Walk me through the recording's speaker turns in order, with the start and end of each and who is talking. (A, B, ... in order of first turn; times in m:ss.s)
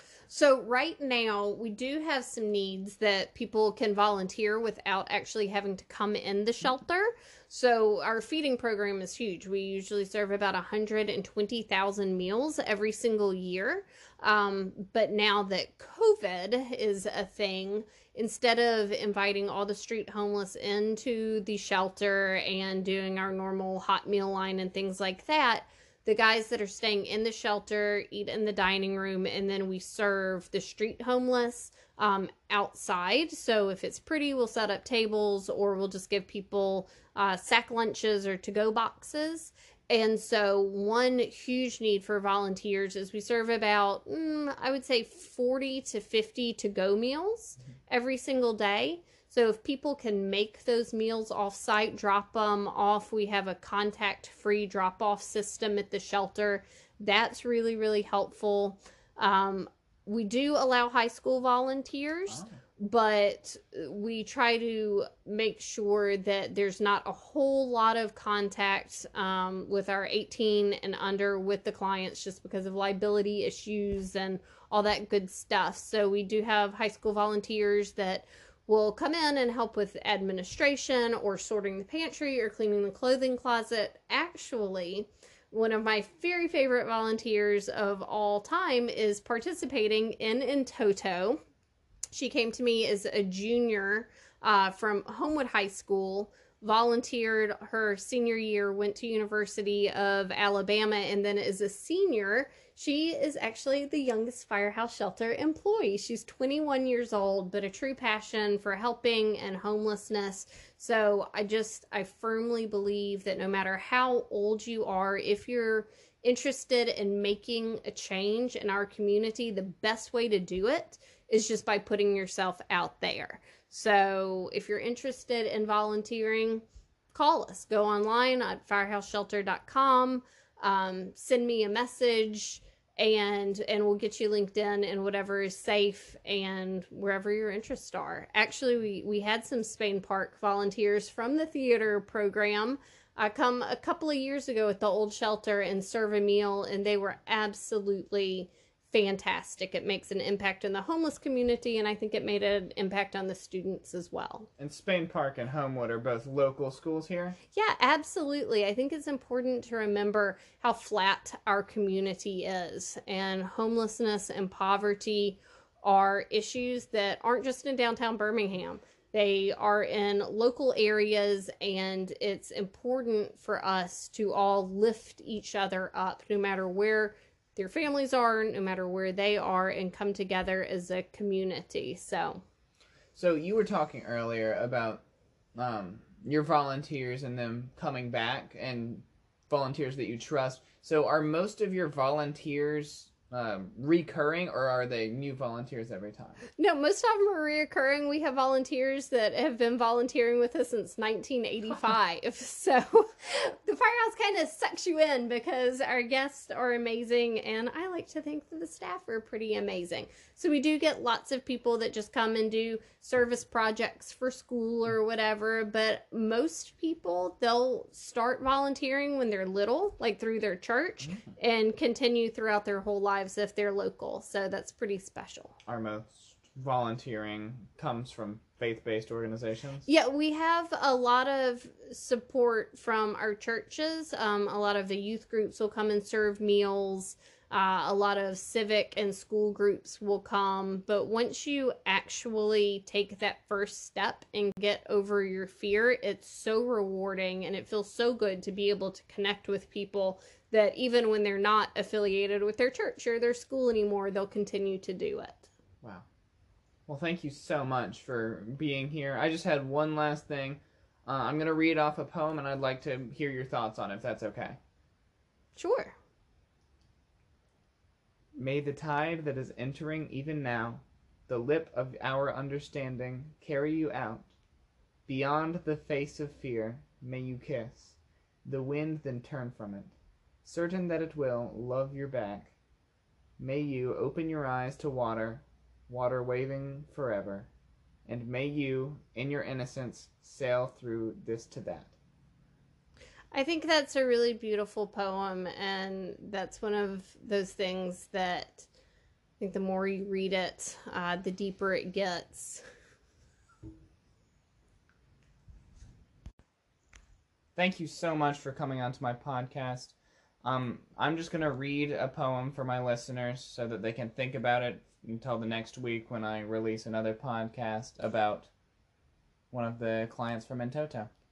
0:00.3-1:31.4 A
1:32.1-2:34.5 A
2:34.6-2:37.4 B
2:37.5-3:02.4 A
3:03.2-3:05.0 B
3:05.6-3:16.4 B
3:16.6-3:45.6 A
3:45.7-3:49.9 B
3:49.9-4:15.5 A
4:16.9-4:24.6 B
4:25.6-4:26.0 A
4:28.4-4:34.3 B
4:35.1-4:39.9 B
4:40.4-4:42.6 B
4:43.4-4:47.5 B
4:48.1-4:51.9 B
4:53.3-4:58.7 A
4:59.4-5:02.6 A
5:07.6-5:18.5 B
5:19.5-5:21.1 B